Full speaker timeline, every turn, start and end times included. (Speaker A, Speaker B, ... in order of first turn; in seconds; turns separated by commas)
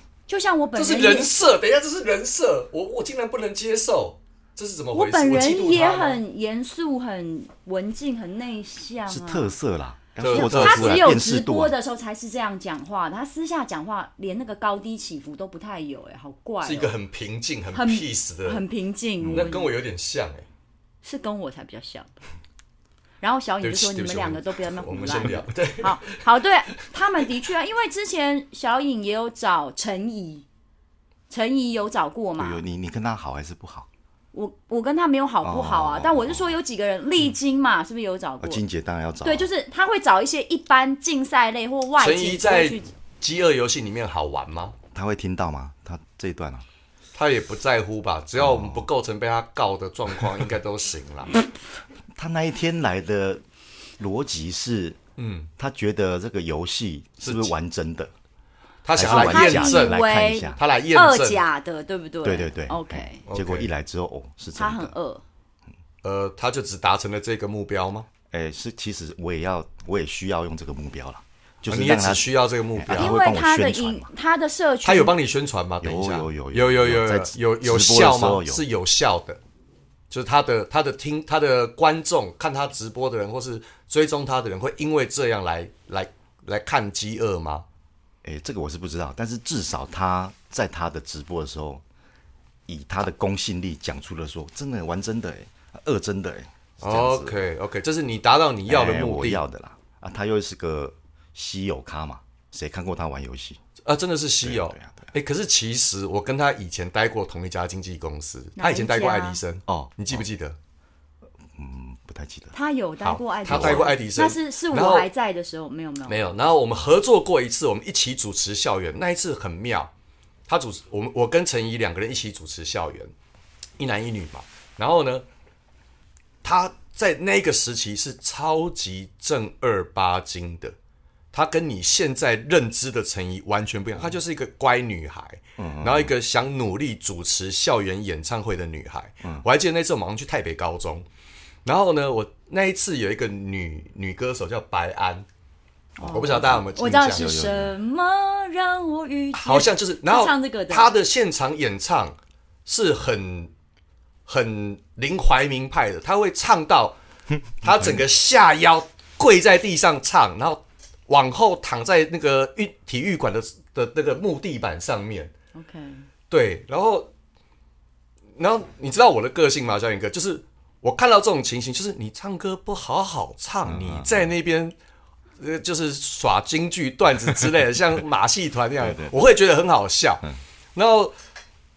Speaker A: 0.3-1.3, Speaker B: 0.8-6.2, Speaker A: 4.9-9.5, Speaker C: 9.1-11.7, Speaker B: 10.2-11.1, Speaker A: 10.3-16.9, Speaker B: 16.6-18.6, Speaker A: 17.7-19.7, Speaker B: 19.2-20.5, Speaker A: 21.0-22.2, Speaker A: 23.2-30.4, Speaker B: 23.6-26.2, Speaker A: 31.3-32.6, Speaker C: 32.4-33.9, Speaker A: 34.3-38.6, Speaker C: 35.4-36.5, Speaker C: 38.4-39.5, Speaker A: 39.2-42.9, Speaker B: 42.0-44.8, Speaker C: 44.9-46.7, Speaker B: 47.1-51.3, Speaker C: 48.4-48.9, Speaker C: 52.2-53.4, Speaker C: 54.0-55.0, Speaker B: 55.2-55.5, Speaker C: 55.6-58.1, Speaker B: 57.2-57.5, Speaker B: 58.9-60.0, Speaker C: 58.9-60.6, Speaker A: 59.0-63.2, Speaker B: 60.5-61.4, Speaker C: 62.2-64.9, Speaker B: 63.3-63.7, Speaker A: 64.6-65.2, Speaker B: 66.0-68.1, Speaker C: 68.3-74.1, Speaker B: 71.7-73.2, Speaker A: 72.9-75.2, Speaker B: 74.8-79.4, Speaker C: 75.8-78.6, Speaker B: 80.1-87.7, Speaker C: 88.2-91.8, Speaker C: 92.7-97.4, Speaker B: 96.8-99.4, Speaker C: 98.7-103.6, Speaker B: 103.9-110.6, Speaker C: 104.4-105.1, Speaker A: 108.6-109.4, Speaker C: 109.7-110.2, Speaker C: 111.5-112.5, Speaker A: 112.5-116.3, Speaker B: 113.0-115.1, Speaker C: 113.5-113.9, Speaker B: 116.1-119.9, Speaker B: 120.5-123.1, Speaker B: 123.8-125.2, Speaker B: 126.4-130.8, Speaker B: 131.3-141.1, Speaker C: 135.6-136.1, Speaker B: 141.7-145.3, Speaker A: 146.0-150.9, Speaker B: 146.0-147.5, Speaker C: 147.1-147.7, Speaker B: 149.3-153.5, Speaker B: 154.3-157.0, Speaker B: 157.6-165.3, Speaker A: 165.6-166.1, Speaker B: 166.3-167.1, Speaker B: 168.4-174.8, Speaker C: 173.7-174.3, Speaker B: 175.4-181.1, Speaker C: 178.8-179.1